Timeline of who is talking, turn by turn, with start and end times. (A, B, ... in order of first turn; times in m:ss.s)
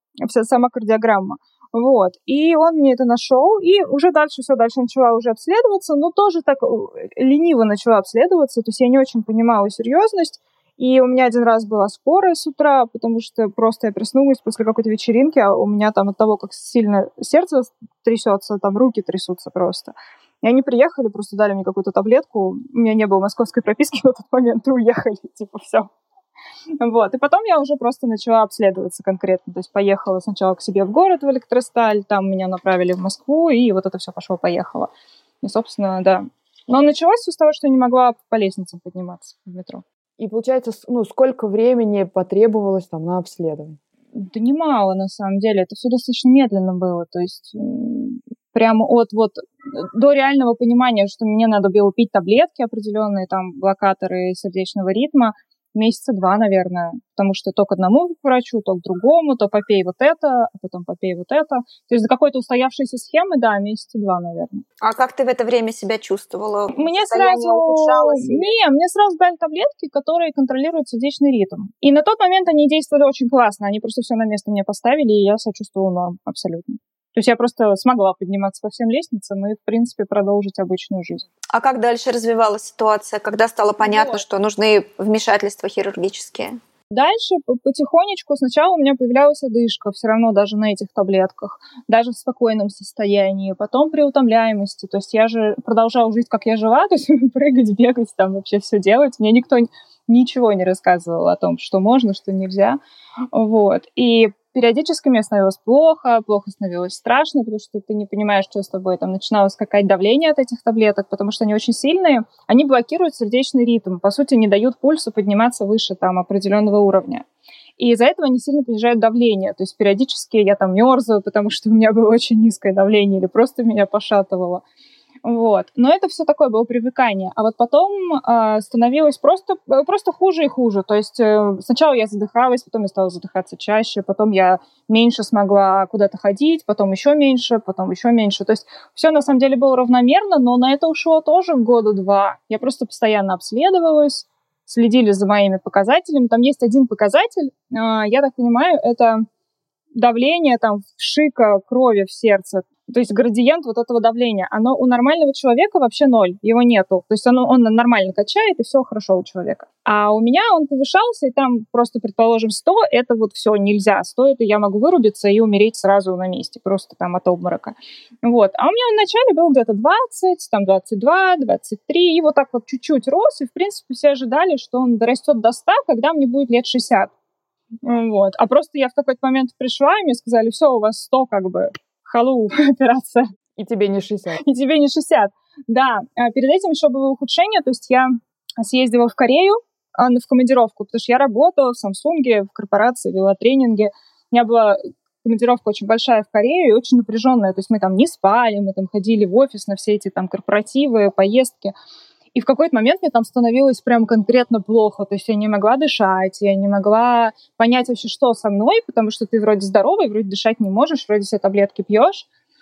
0:00.2-0:25.9 A
0:26.8-0:34.9 A
0:35.4-0:39.8 A
0:40.2-0:43.8 B
0:44.1-1:04.6 A
1:04.8-1:08.5 C
1:06.7-1:21.3 A
1:21.5-1:26.6 C
1:23.8-1:24.2 A
1:26.9-1:42.8 A
1:43.3-1:57.2 A
1:57.8-2:04.6 A
2:05.2-2:29.3 A
2:30.0-2:57.1 A
2:57.8-3:03.2 A
3:03.6-3:04.4 B
3:04.4-3:21.7 A
3:22.4-3:32.3 A